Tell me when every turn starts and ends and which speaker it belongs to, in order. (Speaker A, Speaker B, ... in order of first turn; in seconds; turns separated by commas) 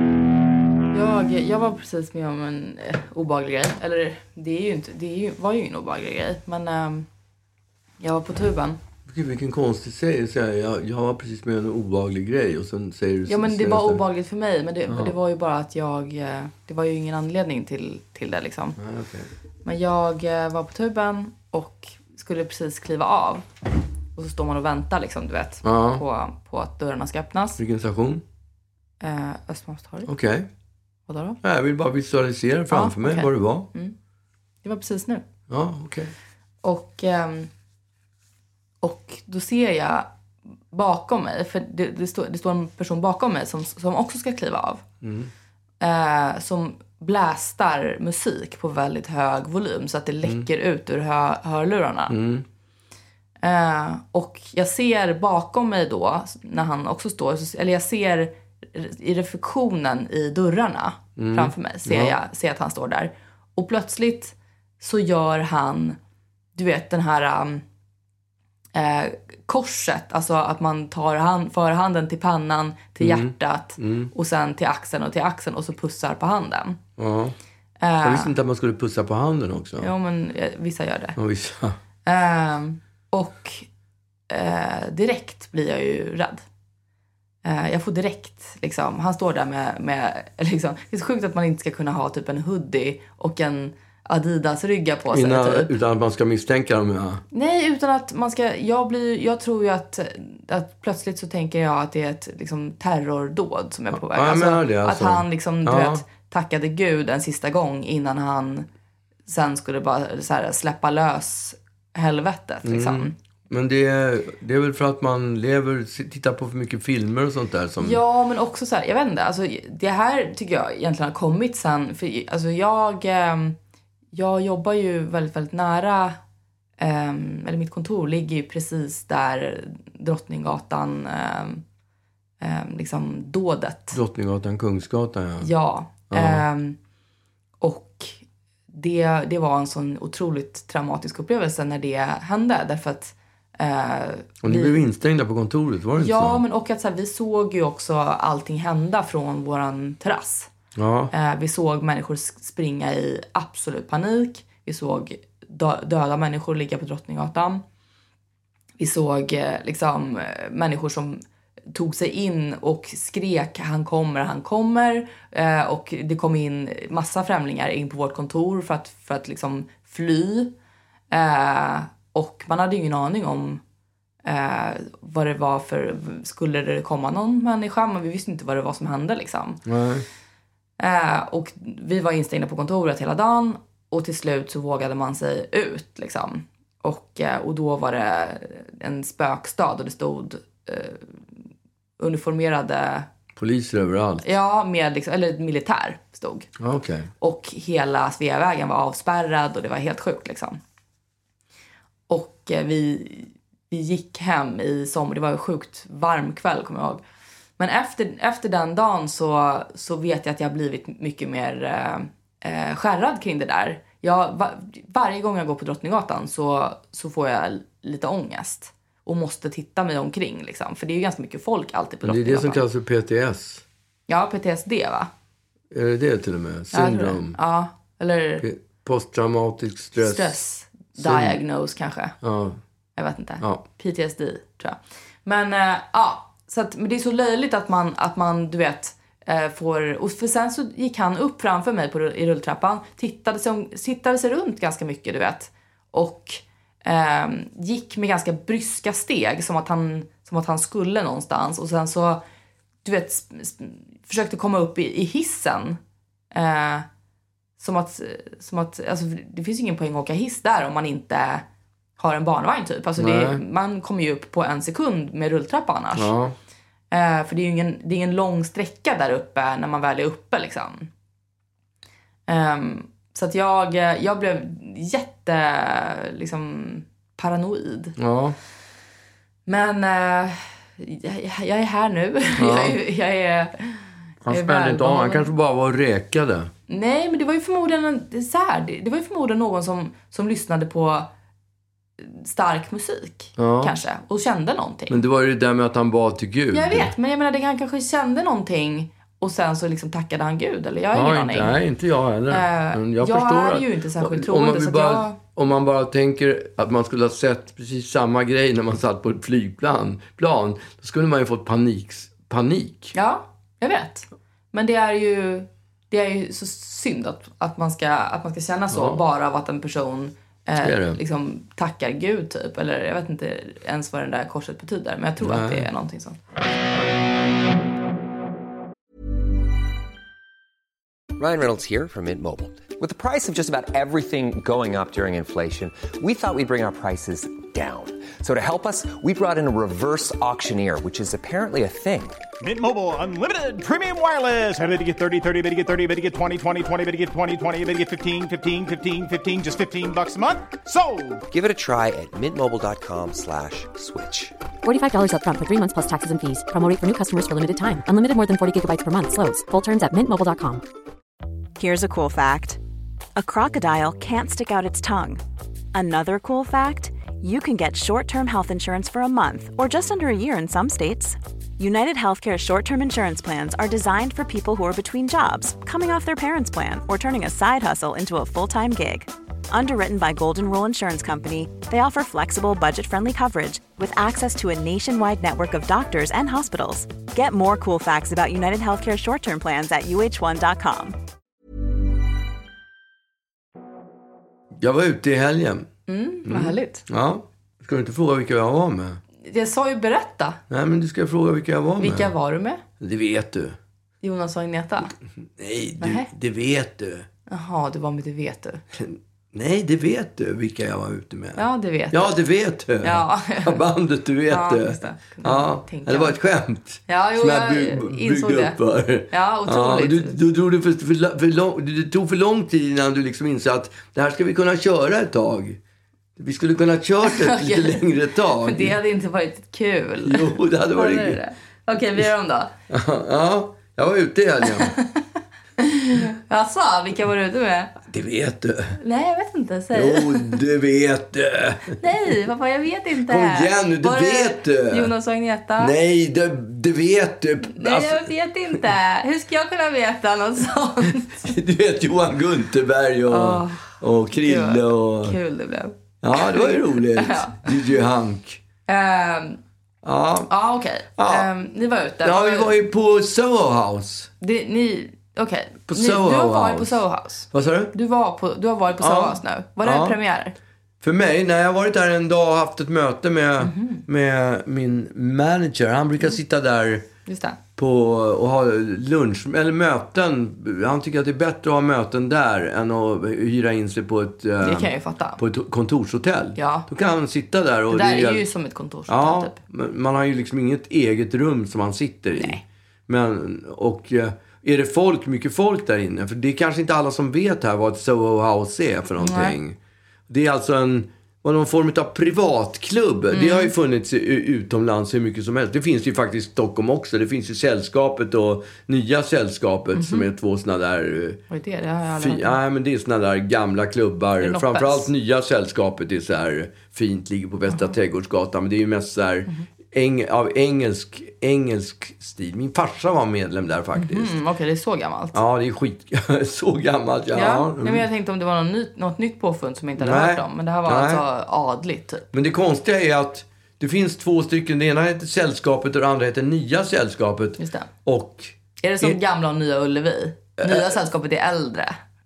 Speaker A: 0.9-7.1, Speaker A: 8.0-8.8, Speaker B: 9.1-14.0, Speaker A: 13.3-18.8, Speaker B: 14.9-15.1, Speaker B: 18.8-19.3, Speaker A: 19.6-23.5, Speaker A: 24.2-27.6, Speaker B: 25.6-26.0, Speaker B: 27.6-28.2, Speaker A: 29.0-30.1, Speaker B: 30.1-30.5, Speaker A: 31.1-31.4, Speaker B: 31.4-33.7, Speaker A: 32.7-34.0, Speaker A: 34.6-35.2, Speaker B: 35.5-36.1, Speaker A: 36.6-37.5, Speaker A: 38.8-40.1, Speaker A: 40.7-44.8, Speaker B: 45.0-45.3, Speaker A: 45.8-52.1, Speaker B: 52.1-52.5, Speaker A: 53.4-66.0, Speaker B: 61.2-62.1, Speaker A: 66.5-67.6, Speaker A: 68.8-76.8, Speaker B: 73.0-74.1, Speaker B: 77.0-77.3, Speaker A: 77.8-78.3, Speaker B: 78.0-79.9, Speaker A: 79.8-81.2, Speaker B: 81.2-81.8, Speaker A: 82.1-83.7, Speaker A: 84.3-86.4, Speaker A: 87.4-95.7, Speaker B: 95.1-97.2, Speaker A: 97.3-108.7, Speaker B: 103.9-106.0, Speaker A: 109.3-113.1, Speaker B: 112.7-118.0, Speaker A: 117.8-123.5, Speaker A: 124.1-126.2, Speaker A: 126.8-131.6, Speaker A: 132.4-134.0, Speaker B: 133.9-135.5, Speaker A: 135.4-136.8, Speaker B: 136.1-136.4, Speaker A: 137.6-138.2, Speaker A: 138.7-144.8, Speaker B: 144.4-146.4, Speaker A: 146.0-150.5, Speaker B: 150.8-151.1, Speaker A: 151.1-157.6, Speaker A: 158.8-161.2, Speaker A: 161.7-170.5, Speaker A: 171.1-173.6, Speaker A: 174.2-179.6, Speaker B: 179.7-180.1, Speaker A: 180.8-191.0, Speaker A: 192.0-193.1, Speaker B: 193.4-194.2, Speaker A: 194.2-196.5, Speaker B: 196.6-197.1, Speaker A: 197.2-200.6, Speaker A: 202.1-207.0, Speaker A: 207.6-222.6, Speaker B: 222.0-223.6, Speaker A: 224.1-225.1, Speaker B: 225.7-227.4, Speaker A: 226.7-228.4, Speaker B: 228.4-230.4, Speaker A: 230.0-232.2, Speaker B: 230.9-231.4, Speaker B: 232.2-232.6, Speaker A: 233.0-252.2, Speaker A: 252.8-255.8, Speaker A: 256.3-256.9, Speaker A: 257.6-261.4, Speaker A: 262.0-266.1, Speaker B: 263.0-263.4, Speaker B: 265.9-266.4, Speaker A: 266.9-270.9, Speaker A: 272.3-278.0, Speaker B: 278.0-278.4, Speaker A: 279.5-285.3, Speaker B: 282.4-282.8, Speaker B: 284.2-286.5, Speaker A: 286.7-291.1, Speaker A: 292.0-295.0, Speaker B: 293.4-293.8, Speaker B: 294.9-296.9, Speaker A: 296.5-301.6, Speaker B: 300.9-312.9, Speaker A: 302.3-305.2, Speaker A: 312.9-326.2, Speaker B: 318.7-319.0, Speaker B: 320.6-321.0, Speaker B: 325.2-325.7, Speaker C: 331.2-342.2, Speaker D: 342.4-351.2, Speaker C: 351.3-354.4, Speaker E: 354.6-360.6, Speaker F: 361.6-362.6, Speaker F: 363.2-365.2, Speaker F: 365.7-391.0, Speaker B: 394.6-395.7, Speaker A: 395.9-396.9, Speaker B: 396.2-399.0, Speaker A: 399.2-400.4, Speaker B: 400.5-402.1, Speaker A: 401.8-402.6, Speaker B: 402.8-403.6, Speaker A: 404.0-404.9, Speaker B: 405.4-407.1, Speaker A: 405.8-406.1, Speaker A: 407.3-408.6, Speaker B: 408.7-425.6, Speaker A: 411.4-412.2, Speaker A: 412.8-413.7, Speaker A: 414.3-416.2, Speaker A: 416.9-420.2, Speaker B: 426.2-428.8, Speaker A: 427.0-427.9, Speaker A: 428.4-432.5, Speaker B: 430.0-431.2, Speaker B: 432.7-434.7, Speaker A: 434.4-435.0, Speaker A: 435.6-437.8, Speaker B: 437.9-438.8, Speaker A: 438.8-440.4, Speaker B: 439.7-441.8, Speaker A: 441.8-445.7, Speaker B: 443.1-444.9, Speaker B: 445.6-448.6, Speaker A: 447.4-451.4, Speaker B: 450.9-455.2, Speaker A: 453.1-457.5, Speaker B: 456.0-458.4, Speaker A: 458.7-459.4, Speaker B: 459.8-460.3, Speaker A: 460.3-462.6, Speaker B: 461.0-461.3, Speaker B: 462.0-464.1, Speaker A: 464.2-470.4, Speaker B: 465.7-466.8, Speaker B: 467.3-467.7, Speaker B: 468.8-470.0, Speaker B: 470.8-476.9, Speaker A: 473.4-473.8, Speaker A: 477.1-477.4, Speaker B: 477.6-488.2, Speaker A: 484.4-485.2, Speaker A: 486.4-486.7, Speaker A: 487.7-489.4, Speaker B: 488.9-499.6, Speaker A: 499.0-499.4, Speaker B: 500.1-511.2, Speaker A: 503.1-503.5, Speaker A: 509.8-510.1, Speaker A: 511.3-512.4, Speaker B: 512.0-524.1, Speaker A: 514.2-514.9, Speaker A: 523.8-525.2, Speaker B: 525.1-527.9, Speaker A: 527.1-532.0, Speaker B: 529.8-531.0, Speaker B: 532.1-539.0, Speaker A: 537.4-537.7, Speaker A: 538.6-541.8, Speaker B: 540.4-540.7